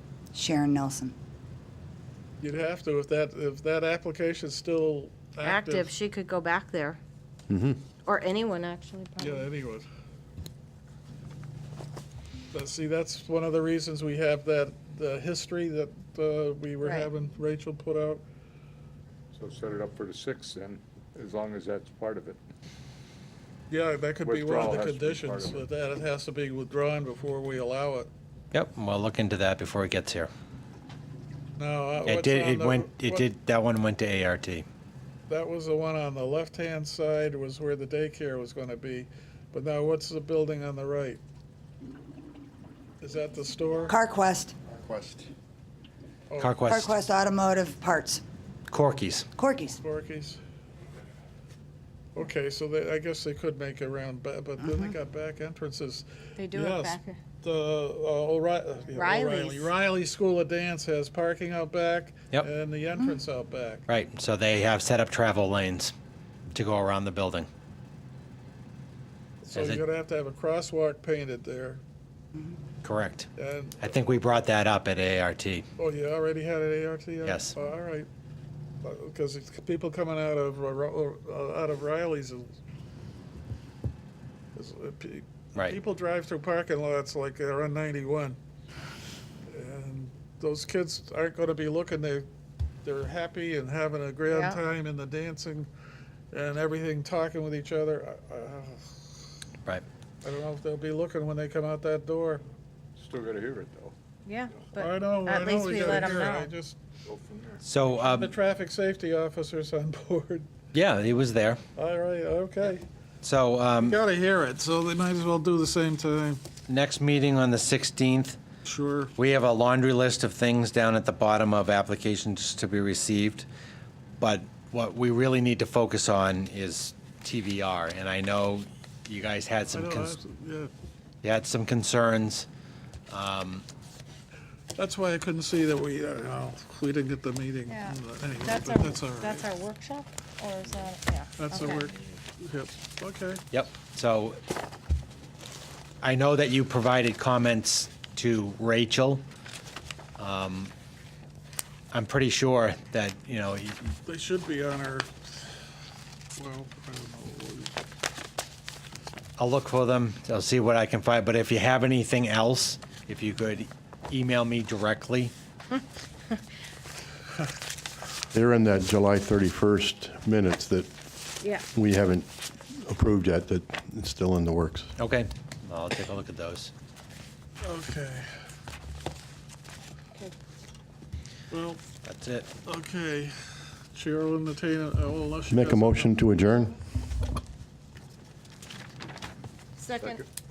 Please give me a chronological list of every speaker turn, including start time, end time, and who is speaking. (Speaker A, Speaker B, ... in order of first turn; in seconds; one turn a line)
Speaker A: 0.3-1.1
Speaker B: 2.4-5.9
Speaker C: 5.4-7.0
Speaker D: 7.5-7.8
Speaker C: 8.1-9.5
Speaker B: 9.2-9.9
Speaker B: 12.5-18.2
Speaker C: 16.8-17.1
Speaker E: 19.3-22.4
Speaker B: 23.7-28.1
Speaker E: 24.2-25.6
Speaker F: 28.5-30.3
Speaker B: 31.6-33.3
Speaker F: 32.0-34.7
Speaker B: 35.3-41.2
Speaker B: 43.0-43.9
Speaker A: 43.9-44.5
Speaker B: 46.3-46.6
Speaker F: 46.4-46.9
Speaker A: 46.7-48.2
Speaker F: 48.7-49.3
Speaker A: 49.4-49.8
Speaker B: 49.8-50.4
Speaker B: 52.1-63.9
Speaker A: 54.6-54.9
Speaker C: 56.4-57.2
Speaker C: 59.0-59.7
Speaker F: 63.9-65.9
Speaker F: 66.5-67.5
Speaker B: 69.4-71.8
Speaker F: 69.5-69.8
Speaker F: 72.8-73.3
Speaker B: 73.4-74.0
Speaker F: 73.9-75.7
Speaker B: 75.8-78.1
Speaker F: 77.2-77.5
Speaker B: 78.8-82.5
Speaker B: 84.5-88.4
Speaker B: 89.5-92.3
Speaker B: 92.8-95.7
Speaker C: 94.3-94.6
Speaker B: 96.3-99.0
Speaker B: 100.2-102.4
Speaker E: 103.0-104.0
Speaker C: 104.3-106.5
Speaker B: 104.7-106.8
Speaker E: 107.1-107.6
Speaker F: 107.7-108.3
Speaker B: 107.9-110.5
Speaker F: 110.7-111.6
Speaker B: 111.8-112.9
Speaker F: 113.2-114.0
Speaker B: 113.8-116.5
Speaker F: 116.7-118.4
Speaker B: 118.7-119.2
Speaker F: 119.2-123.5
Speaker F: 124.2-130.2
Speaker B: 129.7-130.7
Speaker F: 131.2-132.5
Speaker F: 133.1-133.7
Speaker B: 134.8-139.4
Speaker C: 137.7-141.9
Speaker B: 141.4-143.4
Speaker F: 143.5-144.4
Speaker F: 146.0-149.2
Speaker F: 150.2-150.7
Speaker F: 151.9-153.9
Speaker B: 154.1-155.3
Speaker B: 156.3-157.8
Speaker F: 159.4-165.3
Speaker D: 168.3-170.9
Speaker D: 171.7-174.9
Speaker F: 175.0-176.7
Speaker B: 177.6-178.3
Speaker B: 181.5-181.8
Speaker F: 182.0-182.5
Speaker B: 182.7-186.1
Speaker D: 185.5-186.8
Speaker C: 189.8-190.2